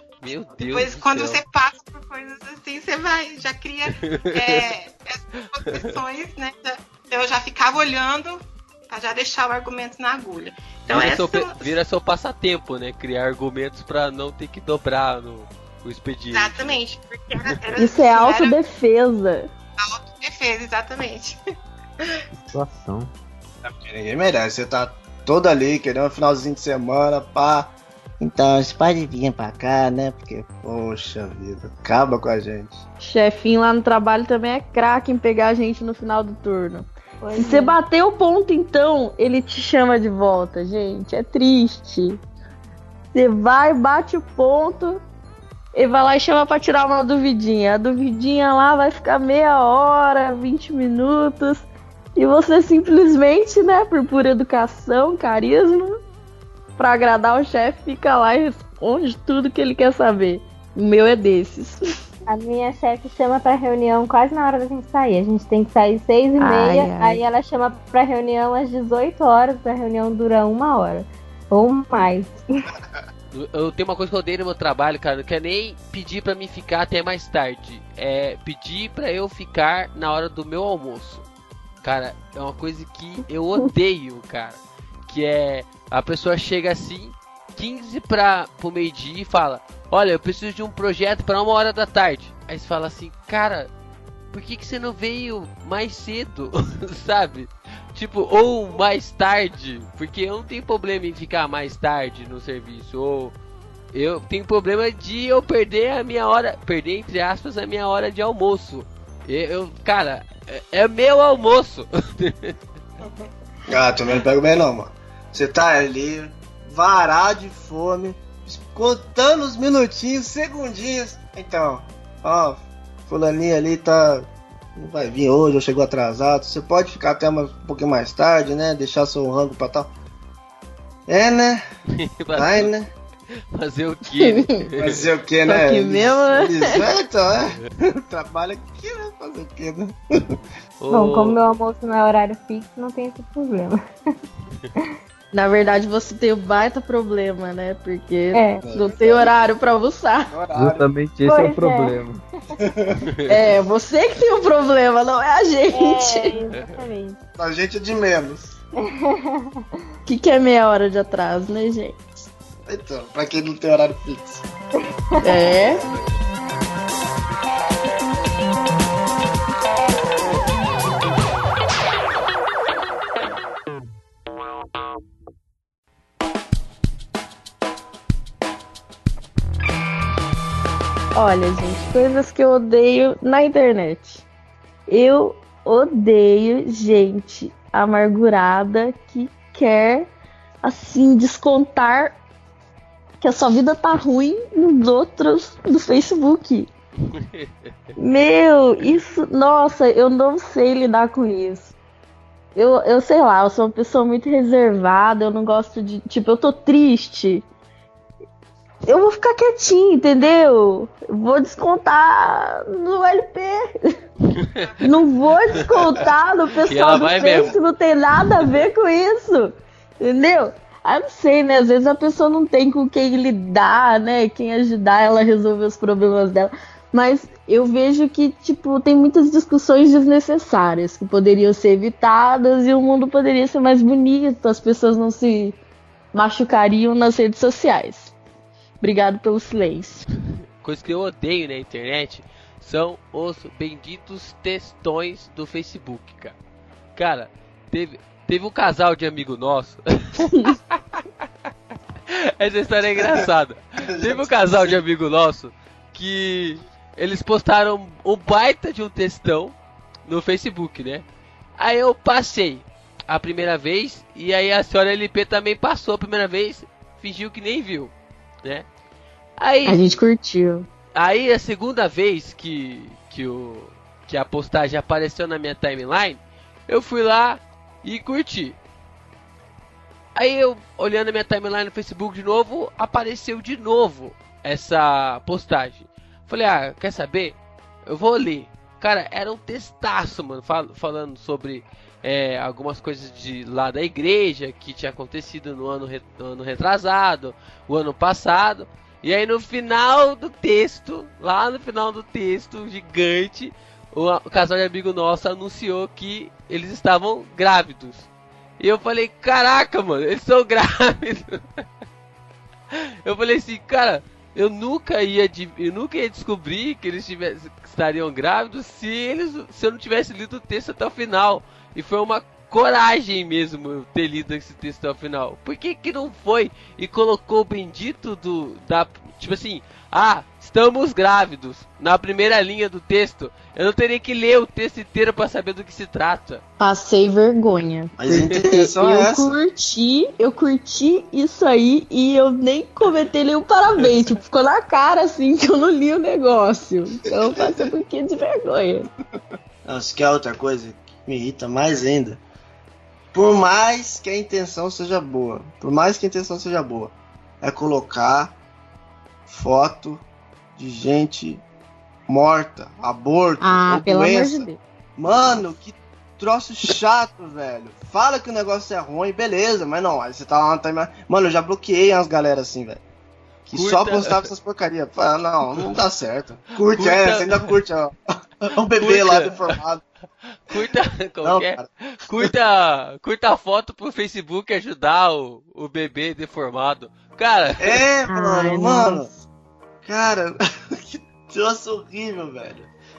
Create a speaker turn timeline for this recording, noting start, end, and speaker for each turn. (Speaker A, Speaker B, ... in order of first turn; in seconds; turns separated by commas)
Speaker A: 0.2-1.4, Speaker B: 0.6-11.8, Speaker A: 4.0-4.6, Speaker A: 5.5-5.9, Speaker A: 10.9-16.8, Speaker B: 16.3-18.6, Speaker C: 17.8-19.5, Speaker B: 19.8-21.4, Speaker D: 22.5-23.1, Speaker E: 23.6-32.8, Speaker C: 33.0-42.2, Speaker F: 37.2-37.8, Speaker C: 43.1-45.0, Speaker C: 45.7-56.0, Speaker C: 56.8-62.0, Speaker F: 62.3-72.6, Speaker C: 66.4-67.2, Speaker A: 73.3-81.3, Speaker A: 81.8-93.7, Speaker A: 94.3-103.3, Speaker A: 103.9-112.5, Speaker E: 113.7-129.9, Speaker E: 131.1-131.6, Speaker A: 132.0-132.7, Speaker E: 132.4-132.9, Speaker A: 133.5-135.1, Speaker C: 134.2-134.5, Speaker E: 134.8-140.2, Speaker C: 135.4-136.9, Speaker A: 140.8-141.4, Speaker F: 140.9-143.8, Speaker C: 145.3-150.3, Speaker F: 148.3-148.6, Speaker E: 148.6-149.6, Speaker E: 150.3-150.9, Speaker D: 150.6-152.2, Speaker F: 151.2-152.0, Speaker E: 152.6-153.0, Speaker C: 153.3-156.3, Speaker F: 155.7-157.2, Speaker E: 157.4-158.6, Speaker F: 158.9-159.6, Speaker C: 160.1-162.0, Speaker E: 162.7-164.4, Speaker C: 165.2-165.8, Speaker C: 181.1-184.2, Speaker C: 184.9-190.1, Speaker C: 190.6-192.2, Speaker C: 193.2-196.7, Speaker A: 197.1-198.0, Speaker C: 198.0-201.7, Speaker C: 202.6-207.4, Speaker C: 208.8-214.0, Speaker A: 214.4-214.7, Speaker B: 214.4-215.0, Speaker C: 214.8-235.6, Speaker A: 216.7-217.6, Speaker E: 216.9-217.4, Speaker C: 236.1-238.1, Speaker C: 238.8-240.1, Speaker A: 240.6-246.4, Speaker A: 247.0-251.0, Speaker A: 252.1-261.0, Speaker E: 253.0-253.2, Speaker E: 253.9-254.7, Speaker A: 261.6-267.9, Speaker A: 269.4-269.9, Speaker C: 269.6-270.7, Speaker A: 271.0-278.6, Speaker A: 280.2-308.1, Speaker A: 308.6-311.6, Speaker A: 313.1-336.4, Speaker C: 336.6-348.9, Speaker E: 338.0-339.4, Speaker E: 347.2-347.7, Speaker E: 349.6-352.2, Speaker E: 353.1-358.4, Speaker E: 359.3-360.1, Speaker E: 360.6-361.4, Speaker E: 362.1-372.8, Speaker C: 363.4-364.6, Speaker E: 373.5-379.8, Speaker A: 373.5-374.3, Speaker A: 376.7-377.5, Speaker A: 378.8-379.4, Speaker A: 380.5-387.8, Speaker E: 381.2-381.7, Speaker E: 387.6-389.1, Speaker C: 388.1-389.2, Speaker E: 389.9-392.7